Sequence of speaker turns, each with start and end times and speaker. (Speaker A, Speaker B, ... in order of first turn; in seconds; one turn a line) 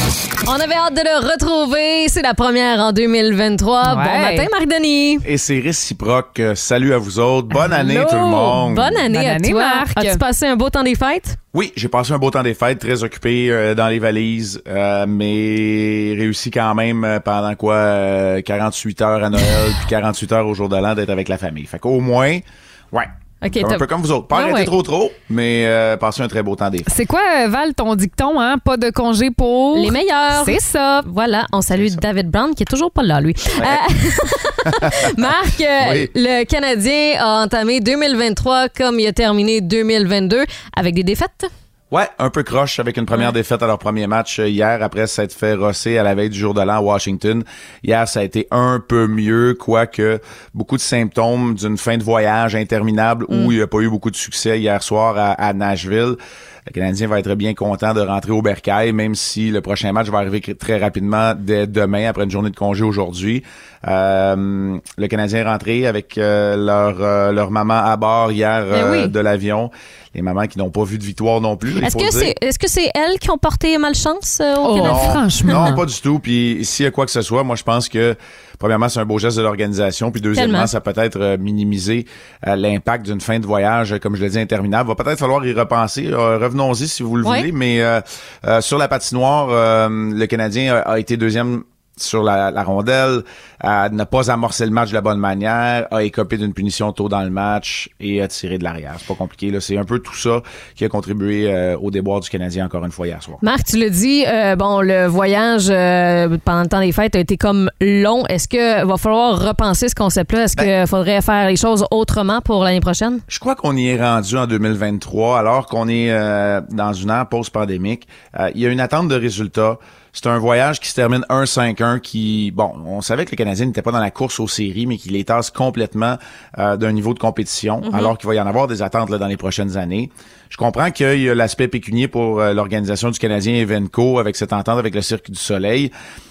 Speaker A: 0.4-5.2
Speaker B: 3.8-4.5
Speaker C: 5.2-9.0
Speaker A: 7.7-11.4
Speaker B: 9.1-10.2
Speaker C: 11.5-26.9
Speaker A: 23.4-24.7
Speaker B: 26.9-31.1
Speaker A: 29.7-41.5
Speaker C: 31.7-32.0
Speaker C: 35.8-36.1
Speaker C: 41.9-56.2
Speaker C: 56.7-72.3
Speaker B: 68.7-69.1
Speaker A: 71.8-75.8
Speaker B: 74.6-75.8
Speaker C: 74.8-103.4
Speaker A: 80.3-80.7
Speaker A: 87.2-87.5
Speaker A: 103.4-113.2
Speaker C: 113.3-135.9
Speaker A: 127.8-128.1